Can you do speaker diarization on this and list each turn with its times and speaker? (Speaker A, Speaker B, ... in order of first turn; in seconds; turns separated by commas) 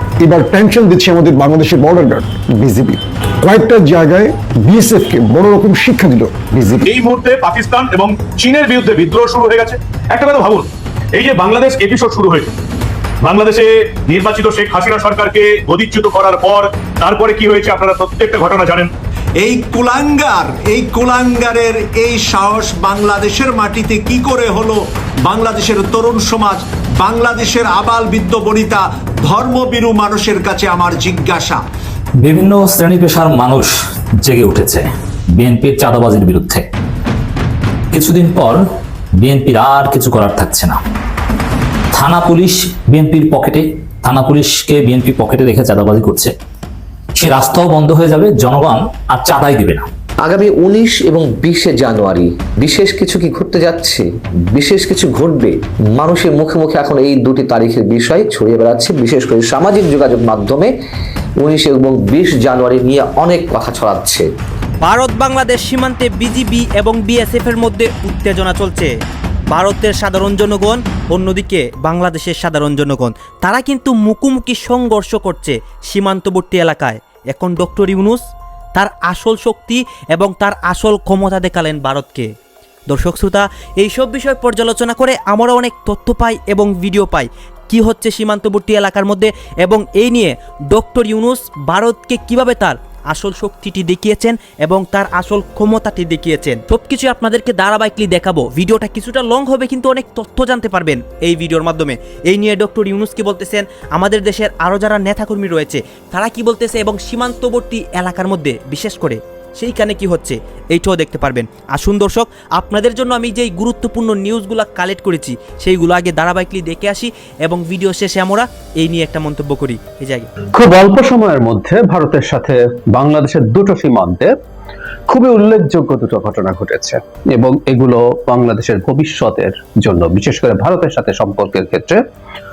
Speaker A: 0.2-6.8, Speaker B: 6.9-12.5, Speaker B: 13.2-18.9, Speaker C: 24.1-24.3, Speaker C: 27.1-27.6, Speaker C: 28.3-28.8, Speaker C: 29.3-30.5, Speaker D: 32.2-33.7, Speaker D: 34.2-36.7, Speaker D: 37.9-38.6, Speaker D: 39.2-40.8, Speaker D: 41.9-46.3, Speaker D: 47.2-49.9, Speaker E: 50.2-60.7, Speaker E: 61.4-64.3, Speaker F: 64.8-68.9, Speaker F: 69.5-78.2, Speaker F: 78.8-82.3, Speaker F: 82.9-120.3, Speaker G: 120.5-124.3, Speaker G: 125.1-132.0